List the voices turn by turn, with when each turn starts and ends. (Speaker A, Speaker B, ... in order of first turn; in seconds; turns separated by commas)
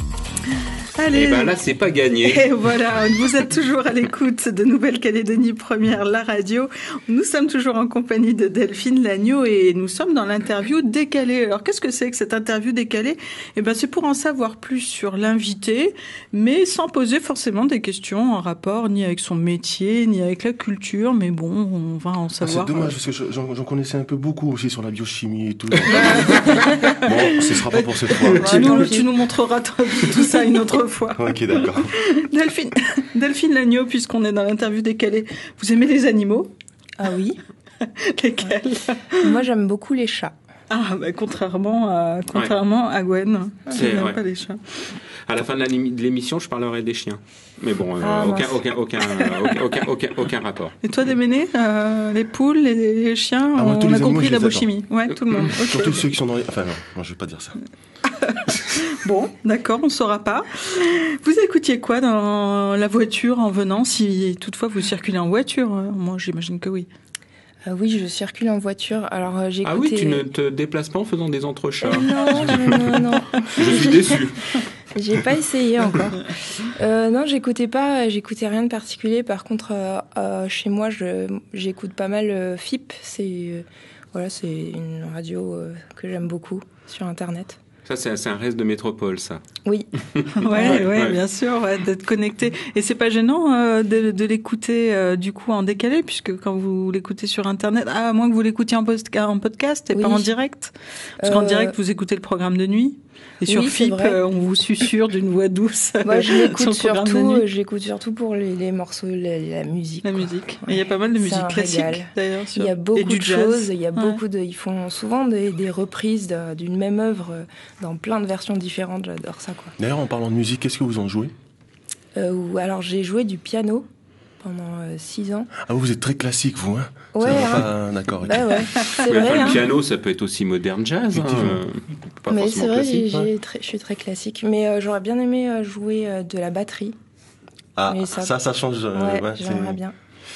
Speaker A: 0.9-1.6, Speaker B: 1.1-2.5, Speaker A: 2.2-22.9, Speaker C: 22.4-28.8, Speaker A: 25.9-36.5, Speaker D: 28.4-29.1, Speaker B: 28.5-28.8, Speaker C: 31.2-31.9, Speaker D: 37.0-37.4, Speaker A: 37.8-39.2, Speaker D: 39.2-40.3, Speaker A: 40.7-44.6, Speaker B: 43.7-44.2, Speaker B: 45.2-50.8, Speaker D: 48.0-48.6, Speaker A: 50.8-56.0, Speaker C: 53.5-54.7, Speaker C: 55.7-57.6, Speaker A: 58.1-66.9, Speaker D: 67.7-70.3, Speaker B: 69.6-72.8, Speaker D: 71.8-74.3, Speaker B: 73.4-74.6, Speaker D: 74.9-87.6, Speaker B: 87.8-89.4, Speaker D: 89.6-89.9, Speaker B: 90.1-91.2, Speaker A: 90.4-107.4, Speaker D: 90.5-90.8, Speaker D: 99.9-100.3, Speaker D: 101.2-101.7, Speaker D: 103.5-104.2, Speaker D: 106.0-119.7, Speaker A: 110.0-114.2, Speaker C: 119.8-121.3, Speaker D: 122.2-123.9, Speaker D: 124.4-125.5, Speaker C: 125.6-128.7, Speaker D: 127.1-127.7, Speaker D: 128.2-129.7, Speaker B: 128.9-133.2, Speaker C: 131.1-131.6, Speaker D: 132.3-136.9, Speaker C: 137.8-139.8, Speaker D: 137.9-138.3, Speaker D: 138.9-139.9